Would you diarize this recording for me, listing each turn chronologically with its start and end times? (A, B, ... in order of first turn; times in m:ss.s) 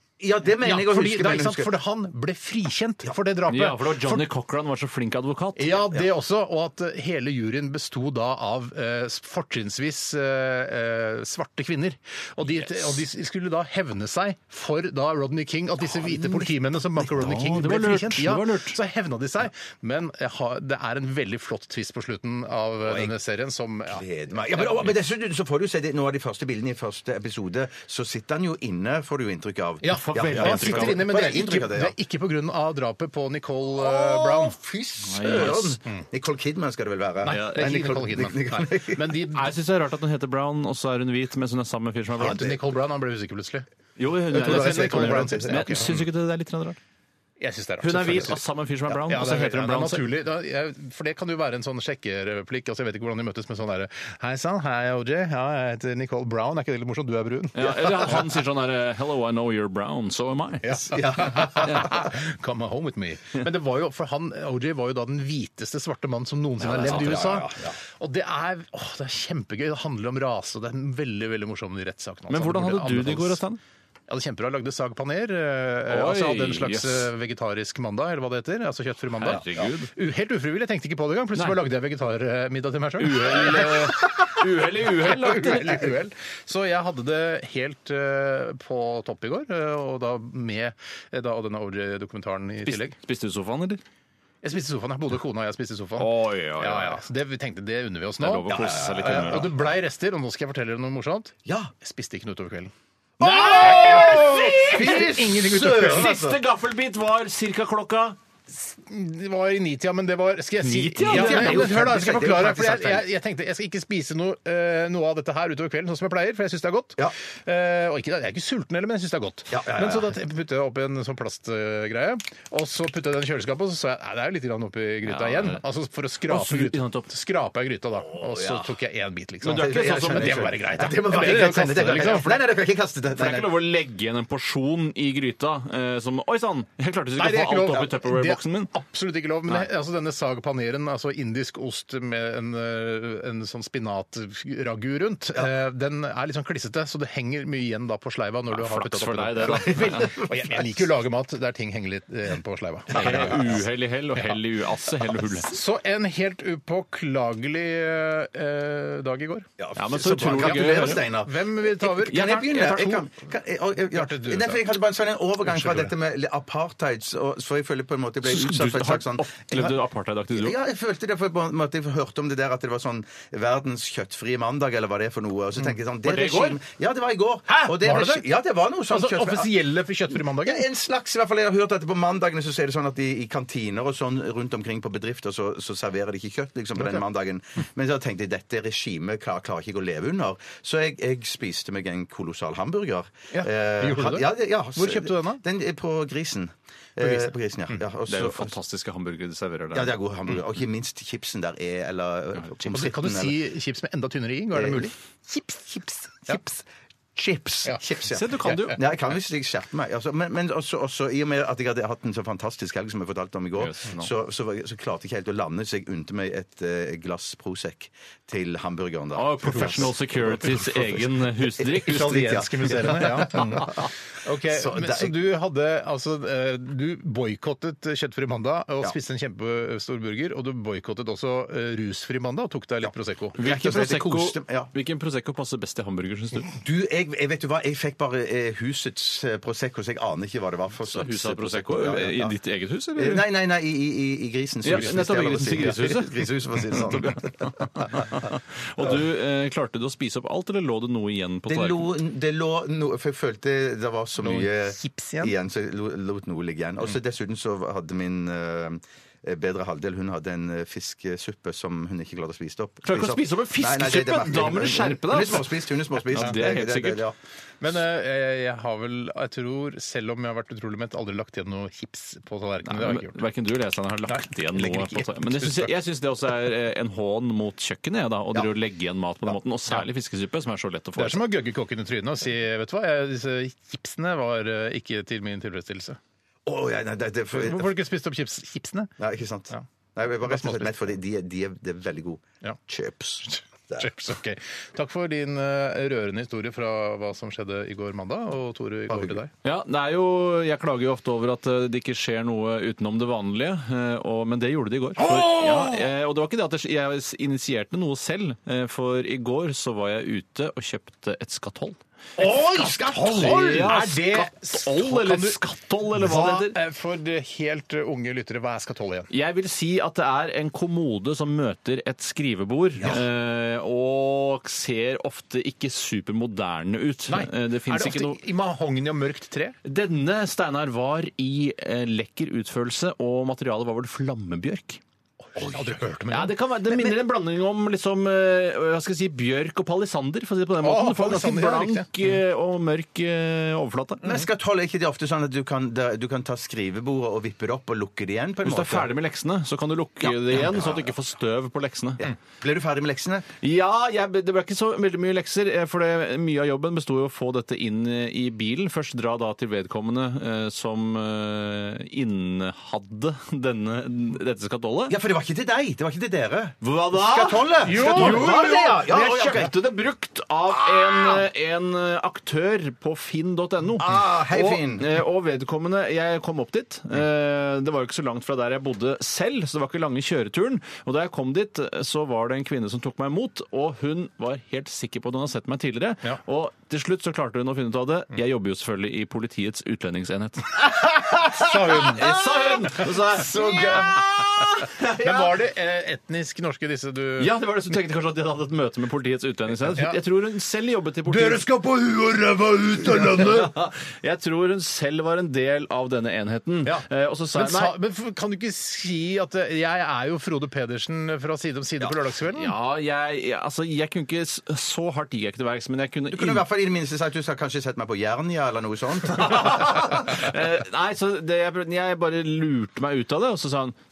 0:00.2-0:01.7 A
0:00.6-0:04.3 B
0:03.5-0:05.8 C
0:05.6-0:24.9 B
0:15.9-0:16.5 A
0:17.2-0:18.8 C
0:22.8-0:23.1 A
0:23.9-0:32.0 A
0:29.8-0:34.6 B
0:30.0-0:31.0 C
0:33.8-0:39.2 A
0:35.0-0:35.8 C
0:37.2-0:39.5 B
0:37.3-0:37.7 C
0:39.3-0:42.4 C
0:42.2-0:42.6 A
0:42.2-0:43.6 B
0:44.0-0:46.8 C
0:44.3-0:46.0 A
0:44.3-0:45.9 B
0:47.4-0:48.4 B
0:47.8-0:50.1 C
0:49.1-0:57.7 B
0:57.6-1:00.9 C
1:00.6-1:13.4 B
1:00.9-1:02.0 A
1:06.6-1:07.8 A
1:06.8-1:07.3 C
1:12.3-1:13.6 C
1:14.1-1:24.4 B
1:15.9-1:17.1 C
1:19.2-1:19.9 C
1:19.3-1:19.7 A
1:23.0-1:25.9 C
1:25.0-1:33.0 B
1:32.7-1:33.8 C
1:34.4-1:38.5 B
1:36.0-1:37.0 C
1:38.2-1:39.5 C
1:38.5-1:39.5 A
1:39.0-1:46.1 B
1:41.4-1:41.7 A
1:43.2-1:46.4 A
1:43.5-1:45.1 C
1:45.7-1:48.2 C
1:48.5-2:12.4 B
1:50.6-1:51.9 C
1:51.0-1:53.1 A
1:59.5-2:00.2 A
2:05.1-2:05.6 C
2:06.3-2:07.1 C
2:08.2-2:08.7 A
2:09.4-2:13.6 A
2:09.4-2:10.6 C
2:11.8-2:12.3 C
2:13.1-2:18.7 C
2:17.2-2:33.6 B
2:28.5-2:30.2 C
2:29.5-2:30.5 A
2:32.9-2:33.6 A
2:32.9-2:35.5 C
2:35.5-2:39.5 B
2:39.6-2:49.7 A
2:39.8-2:41.1 C
2:40.3-2:43.0 B
2:42.1-2:43.0 C
2:43.9-2:44.7 B
2:45.4-2:45.9 B
2:48.2-2:50.6 C
2:50.4-2:59.6 A
2:56.0-2:56.6 C
2:57.5-2:58.3 B
2:58.9-3:00.6 B
3:00.1-3:18.5 A
3:06.8-3:07.0 B
3:13.3-3:15.4 B
3:17.0-3:17.8 B
3:18.1-3:20.0 C
3:19.7-3:23.4 A
3:22.7-3:26.4 B
3:24.5-3:24.9 A
3:26.3-3:26.6 A
3:27.2-3:43.9 A
3:28.1-3:28.8 C
3:33.6-3:34.1 C
3:39.2-3:42.5 C
3:39.4-3:40.0 B
3:41.9-3:53.4 B
3:44.4-3:45.2 A
3:53.4-3:54.7 A
3:53.4-3:56.5 C
3:56.6-4:02.4 A
4:00.9-4:03.2 C
4:03.0-4:08.0 A
4:04.6-4:11.9 C
4:11.5-4:27.2 A
4:14.2-4:15.3 B
4:22.8-4:27.0 C
4:27.6-4:33.2 B
4:32.7-4:41.3 C
4:34.1-4:35.7 B
4:41.0-4:46.0 B
4:46.5-4:47.7 A
4:47.3-4:48.9 B
4:49.0-4:53.9 A
4:50.2-4:50.9 B
4:53.2-4:59.3 B
4:58.9-4:59.2 A
4:59.4-5:11.8 C
5:05.0-5:05.8 A
5:12.2-5:13.8 A
5:12.2-5:15.4 B
5:12.9-5:16.6 C
5:16.0-5:19.1 B
5:19.1-5:28.2 C
5:27.1-5:29.6 B
5:29.6-5:34.8 C
5:35.3-5:36.9 B
5:35.4-5:35.7 A
5:36.1-5:44.1 C
5:40.6-5:41.9 B
5:44.0-5:48.9 A
5:48.4-5:52.0 C
5:50.0-5:50.9 A
5:52.0-5:53.3 A
5:53.4-6:05.0 C
6:04.9-6:09.6 A
6:06.6-6:30.7 C
6:07.7-6:08.6 B
6:10.8-6:11.1 A
6:13.8-6:14.9 A
6:31.3-6:32.1 B
6:31.7-6:35.4 C
6:31.9-6:34.3 A
6:34.9-6:37.3 B
6:37.2-6:41.5 C
6:39.7-6:40.0 B
6:41.1-6:43.5 B
6:42.9-6:47.8 C
6:46.6-6:52.5 B
6:52.3-6:56.4 C
6:56.1-7:00.0 A
6:59.2-7:03.8 C